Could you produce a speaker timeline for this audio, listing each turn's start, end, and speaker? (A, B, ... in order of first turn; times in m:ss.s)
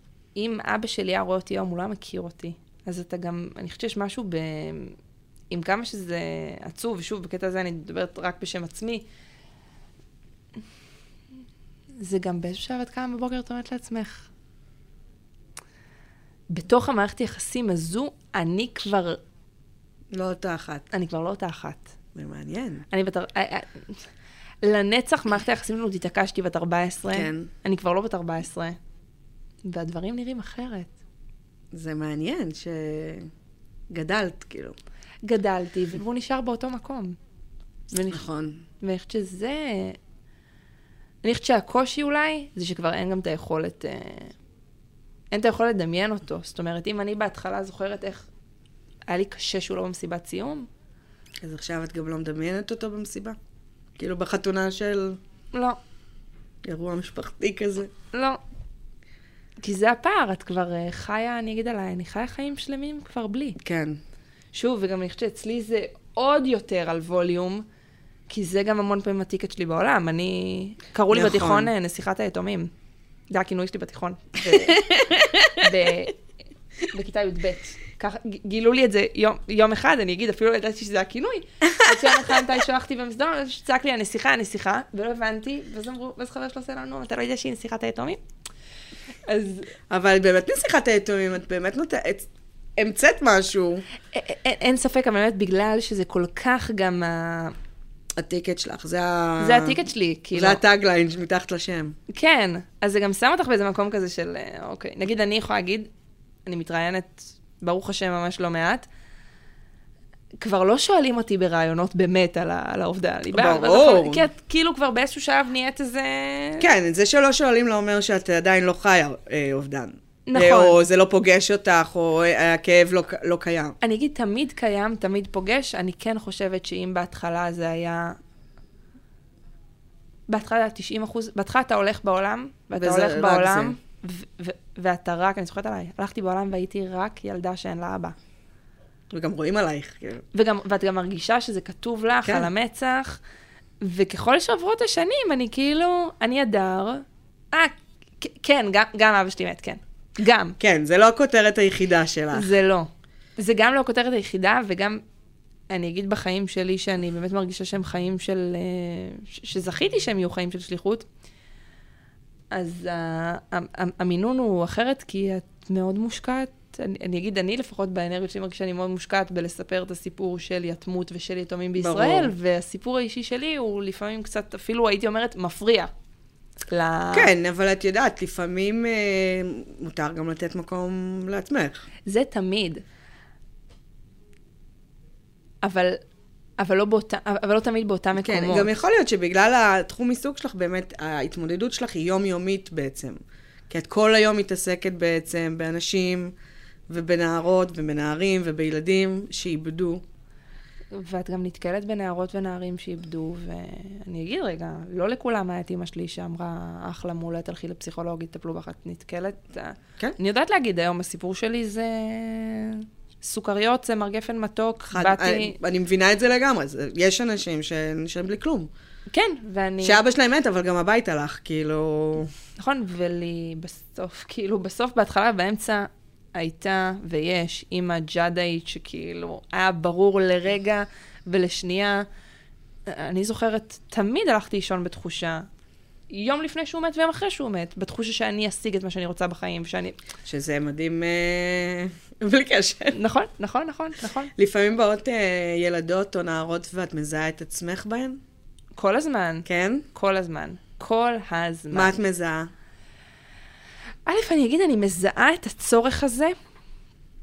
0:00.4-0:05.0 A
0:05.5-0:09.0 A
0:12.0-0:14.3 A
0:16.5-0:19.2 A
0:20.1-0:20.9 B
0:20.9-0:21.9 A
0:22.2-0:22.9 B
0:22.9-0:24.0 A
0:24.6-0:28.8 A
0:27.1-0:27.5 B
0:29.6-0:30.9 A
0:31.7-0:33.3 B
0:33.9-0:34.8 B
0:35.2-0:37.2 A
0:37.9-0:38.2 A
0:38.1-0:38.6 B
0:38.8-0:40.0 A
0:41.2-0:44.3 A
0:45.3-0:48.3 A
0:49.1-0:50.7 A
0:51.4-0:53.4 B
0:54.0-0:55.2 B
0:55.5-0:55.8 A
0:56.6-0:57.9 B
0:58.1-0:58.4 A
0:59.6-1:03.6 A
1:03.6-1:04.0 B
1:04.5-1:07.7 A
1:08.3-1:12.7 A
1:11.1-1:11.7 B
1:13.3-1:16.2 A
1:14.5-1:15.6 B
1:16.9-1:28.2 A
1:21.7-1:22.0 B
1:29.3-1:29.7 A
1:29.9-1:33.8 B
1:34.1-1:37.6 A
1:38.2-1:39.8 B
1:39.4-1:40.6 A
1:40.3-1:42.0 B
1:42.1-1:45.9 A
1:46.5-1:48.9 A
1:50.4-1:56.7 A
1:53.3-1:54.3 B
1:56.6-2:03.8 B
2:00.3-2:00.8 A
2:03.8-2:08.2 A
2:10.3-2:18.2 A
2:12.8-2:13.8 B
2:19.1-2:20.2 B
2:20.3-2:23.2 A
2:23.8-2:30.6 A
2:30.6-2:32.5 B
2:32.3-2:35.0 A
2:35.7-2:41.1 A
2:42.5-2:55.9 A
2:51.8-2:52.3 B
2:56.7-2:57.3 A
2:57.1-3:01.8 B
3:02.1-3:02.8 A
3:05.6-3:06.0 A
3:06.6-3:08.7 A
3:08.2-3:13.2 B
3:13.7-3:16.3 B
3:16.9-3:20.0 B
3:20.9-3:35.6 A
3:34.9-3:38.7 B
3:39.1-3:40.0 A
3:39.8-3:42.3 B
3:42.6-3:52.1 A
3:52.9-3:55.5 A
3:56.1-4:00.0 A
4:00.3-4:03.0 B
4:02.9-4:04.3 A
4:04.4-4:08.2 B
4:08.8-4:12.0 A
4:09.5-4:09.8 B
4:11.7-4:12.5 B
4:14.1-4:16.4 A